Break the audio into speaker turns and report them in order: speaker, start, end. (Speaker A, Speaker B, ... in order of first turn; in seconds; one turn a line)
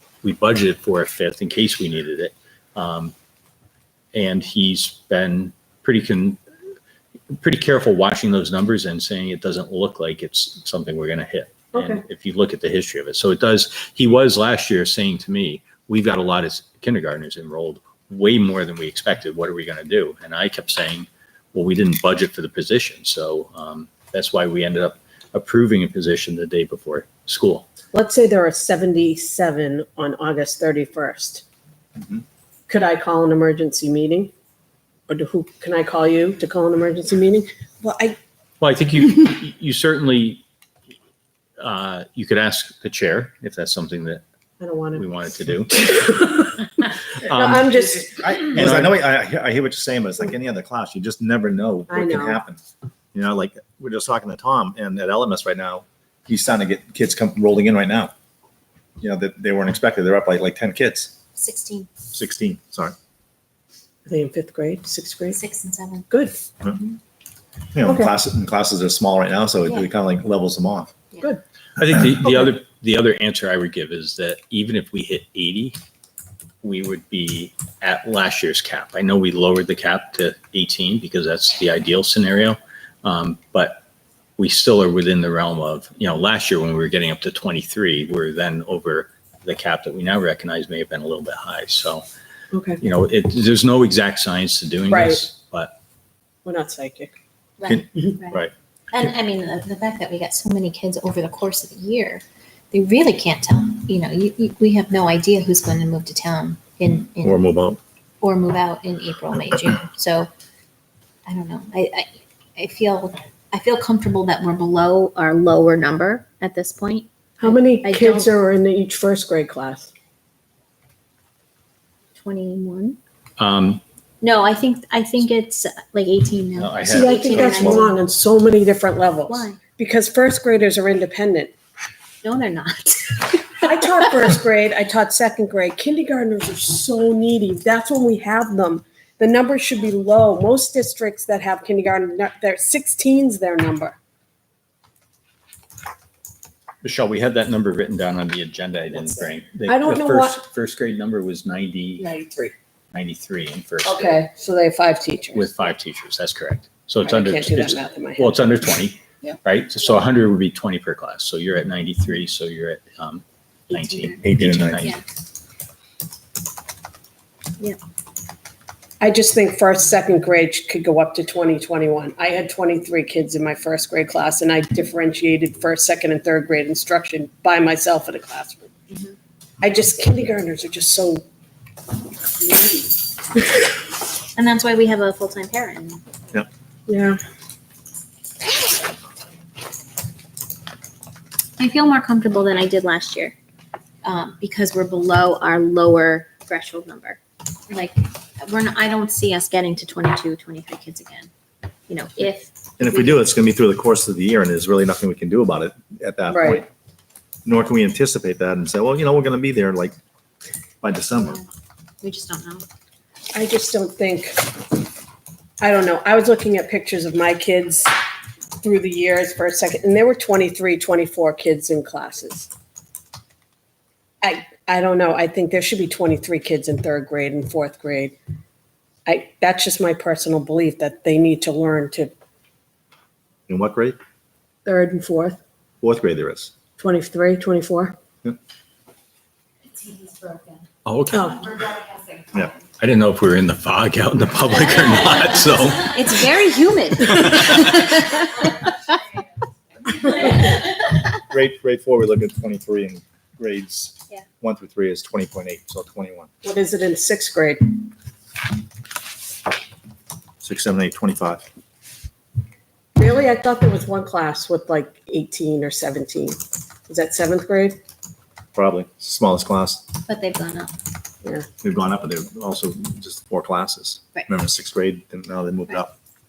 Speaker A: 0.2-3.1
Speaker A: 4.1-6.4
Speaker A: 7.3-27.7
Speaker B: 11.7-12.0
Speaker B: 27.9-31.4
Speaker B: 32.7-34.3
Speaker B: 35.1-38.2
Speaker A: 38.6-40.4
Speaker A: 41.6-44.2
Speaker B: 44.6-45.0
Speaker A: 44.9-45.9
Speaker B: 45.7-48.9
Speaker C: 48.1-52.6
Speaker B: 51.9-52.4
Speaker C: 53.1-58.1
Speaker C: 59.0-61.1
Speaker D: 61.4-61.9
Speaker C: 62.1-62.9
Speaker B: 64.0-65.4
Speaker D: 65.3-66.1
Speaker B: 66.1-66.4
Speaker C: 67.7-70.9
Speaker B: 67.8-68.1
Speaker A: 71.8-75.8
Speaker A: 76.6-83.8
Speaker A: 84.4-92.0
Speaker B: 92.5-92.8
Speaker A: 92.8-95.8
Speaker B: 94.9-95.2
Speaker B: 96.4-97.1
Speaker D: 97.6-98.4
Speaker D: 98.9-107.5
Speaker C: 107.2-107.8
Speaker D: 108.2-110.3
Speaker D: 111.2-118.3
Speaker B: 117.4-119.9
Speaker D: 122.2-123.0
Speaker A: 123.4-123.8
Speaker D: 124.2-128.0
Speaker A: 126.6-127.7
Speaker B: 126.8-131.5
Speaker D: 129.3-129.6
Speaker D: 132.2-133.7
Speaker B: 133.6-144.0
Speaker A: 146.8-152.1
Speaker B: 149.7-150.4
Speaker B: 152.0-152.5
Speaker A: 152.9-154.2
Speaker B: 153.8-155.5
Speaker A: 155.3-165.0
Speaker B: 157.0-158.5
Speaker D: 163.7-164.2
Speaker C: 164.2-164.8
Speaker B: 169.0-178.7
Speaker B: 179.6-181.2
Speaker B: 182.3-182.8
Speaker D: 184.3-186.0
Speaker B: 186.9-187.2
Speaker D: 191.6-193.3
Speaker D: 194.0-201.3
Speaker D: 201.9-203.2
Speaker C: 202.8-206.7
Speaker B: 206.3-206.6
Speaker C: 207.4-209.9
Speaker C: 210.8-211.4
Speaker D: 211.2-211.4
Speaker D: 212.0-212.6
Speaker B: 213.3-214.6
Speaker B: 215.6-217.9
Speaker B: 218.6-222.5
Speaker B: 224.2-228.2
Speaker B: 229.1-232.1
Speaker C: 233.5-234.0
Speaker B: 234.6-235.4
Speaker C: 235.8-236.5
Speaker B: 236.8-237.9
Speaker D: 239.7-240.6
Speaker A: 240.8-241.4
Speaker B: 241.1-241.4
Speaker D: 241.7-241.9
Speaker A: 242.8-246.0
Speaker D: 245.8-248.3
Speaker A: 247.2-247.6
Speaker D: 250.0-250.5
Speaker C: 251.3-256.3
Speaker B: 256.4-257.8
Speaker C: 260.4-261.4
Speaker B: 262.9-267.8
Speaker C: 268.6-269.9
Speaker D: 270.1-270.7
Speaker C: 271.6-275.9